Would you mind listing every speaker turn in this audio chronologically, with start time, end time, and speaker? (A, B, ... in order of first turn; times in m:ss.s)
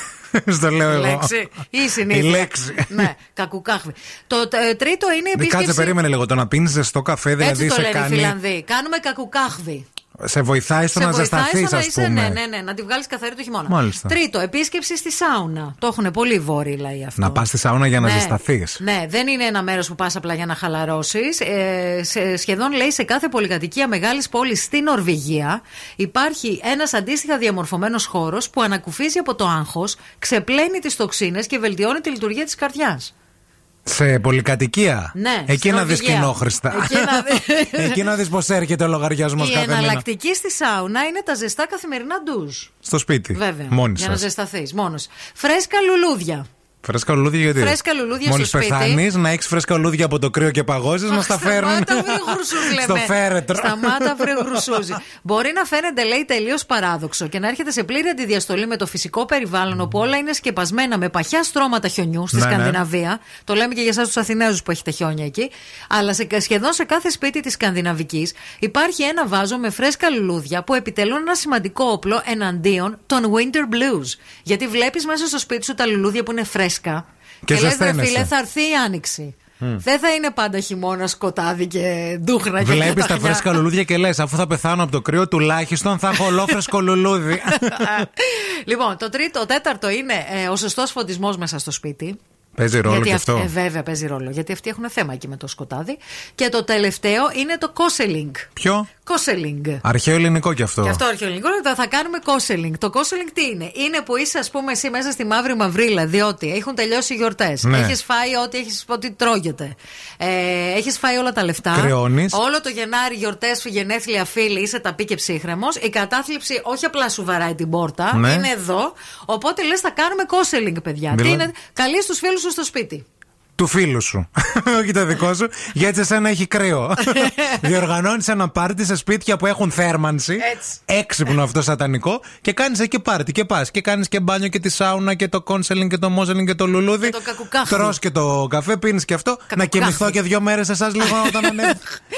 0:00.3-0:01.3 A
0:00.9-0:06.0 B
0:02.1-0:03.1 A
0:05.4-0:08.4 A
0:07.4-0:09.8 B
0:10.2-0:12.4 A
0:10.9-0:17.4 B
0:13.7-0:14.2 A
0:17.2-0:18.8 A
0:18.0-0:33.1 B
0:33.9-0:40.0 A
0:35.2-0:38.1 B
0:39.4-0:42.7 B
0:42.8-0:44.2 A
0:43.3-0:46.4 B
0:46.8-0:54.9 A
0:47.6-0:49.0 B
0:51.1-1:23.6 B
1:02.3-1:02.8 A
1:17.4-1:18.3 A
1:22.6-1:28.1 A
1:26.2-1:26.7 B
1:27.4-1:32.2 B
1:32.6-1:33.5 A
1:32.8-1:38.5 B
1:38.6-1:38.9 A
1:39.0-1:39.8 B
1:39.8-1:41.0 A
1:40.8-2:03.0 B
1:47.6-1:48.0 A
1:51.7-1:52.4 A
1:58.1-1:58.5 A
2:01.1-2:01.5 A
2:03.6-2:21.8 A
2:07.2-2:07.6 B
2:10.4-2:10.8 B
2:17.0-2:18.0 B
2:19.5-2:20.2 B
2:21.0-2:21.9 B